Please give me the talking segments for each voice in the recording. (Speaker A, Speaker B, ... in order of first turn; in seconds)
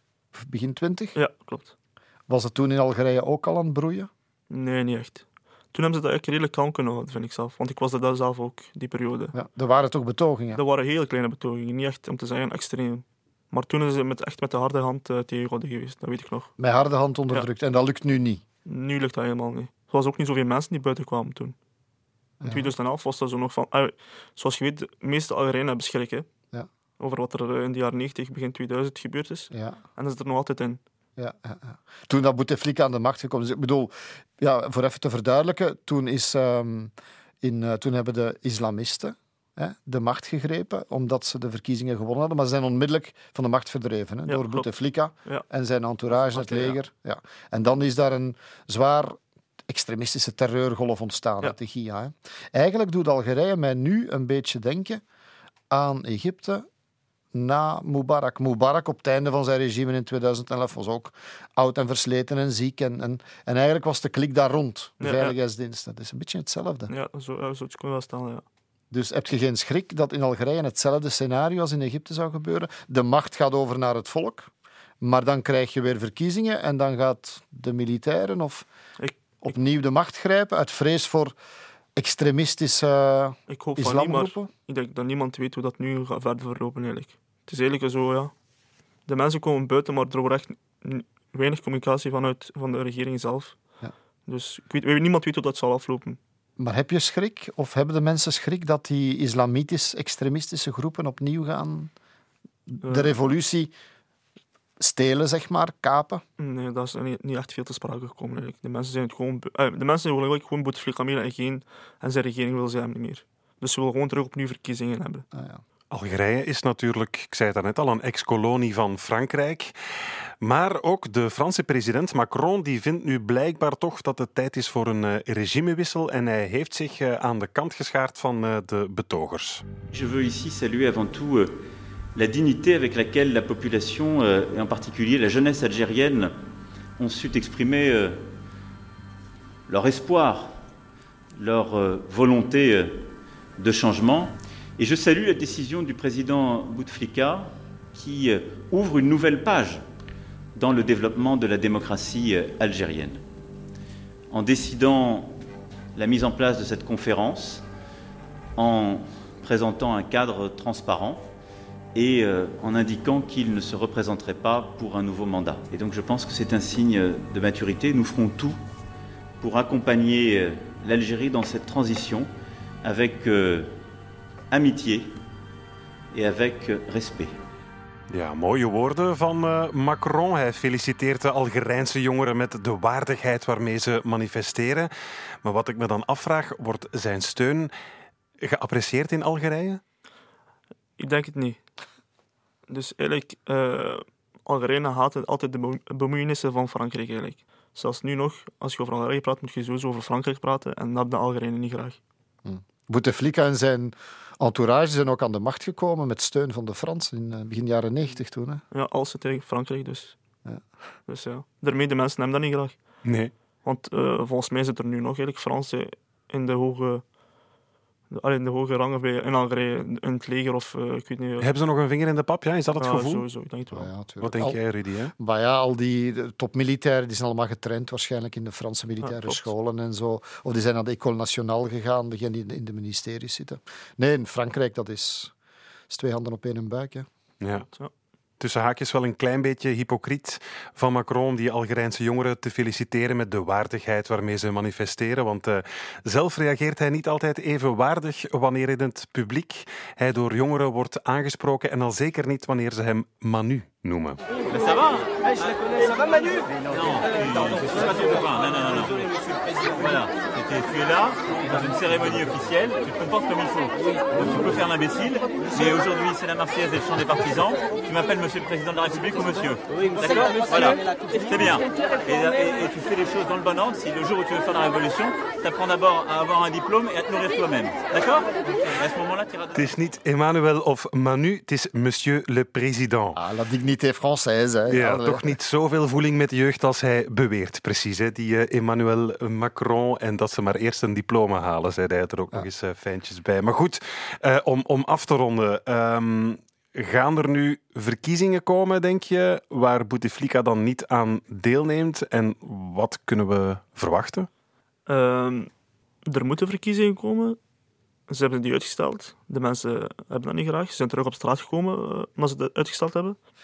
Speaker A: 0.3-1.2, 2.3-4.1, 9.3-10.6, 16.6-18.4, 22.4-22.7, 29.5-29.8, 31.2-49.2, 49.7-55.0, 55.7-56.7, 57.3-66.9, 68.9-74.5, 75.0-78.7, 79.4-81.3, 82.0-84.5, 96.6-101.9, 102.7-103.7, 104.8-106.2, 115.3-115.6, 202.4-208.6, 223.7-224.6, 225.2-235.3, 235.9-237.1, 283.2-285.3
Speaker B: 1.1-1.7, 4.5-9.3, 10.6-16.5, 18.7-21.6, 22.4-26.3, 27.0-30.8, 44.3-44.7, 46.1-46.8, 65.0-65.4, 66.9-68.5, 79.0-79.6, 83.5-88.3, 89.1-93.6, 94.3-96.2, 102.8-103.1, 106.4-115.3, 191.0-191.6, 192.7-202.0, 208.7-210.2, 211.1-212.8, 213.6-217.0, 218.1-221.5, 222.8-223.9, 229.0-229.5, 304.9-305.5, 306.1-307.4, 308.1-313.2
Speaker C: 115.9-119.7, 120.4-129.7, 178.1-184.9, 185.4-187.7, 188.4-189.8, 213.1-213.3, 221.4-223.2, 224.2-225.1, 237.4-237.7, 238.4-254.2, 279.5-283.2, 284.7-304.3
Speaker D: 129.9-131.6, 132.2-136.3, 137.0-138.3, 139.7-140.6, 141.3-149.8, 150.6-153.2, 154.3-155.4, 155.9-157.7, 158.6-161.3, 161.9-168.6, 169.4-172.3, 172.8-173.7, 174.5-175.2, 176.1-177.4
Speaker E: 254.5-255.3, 256.6-279.6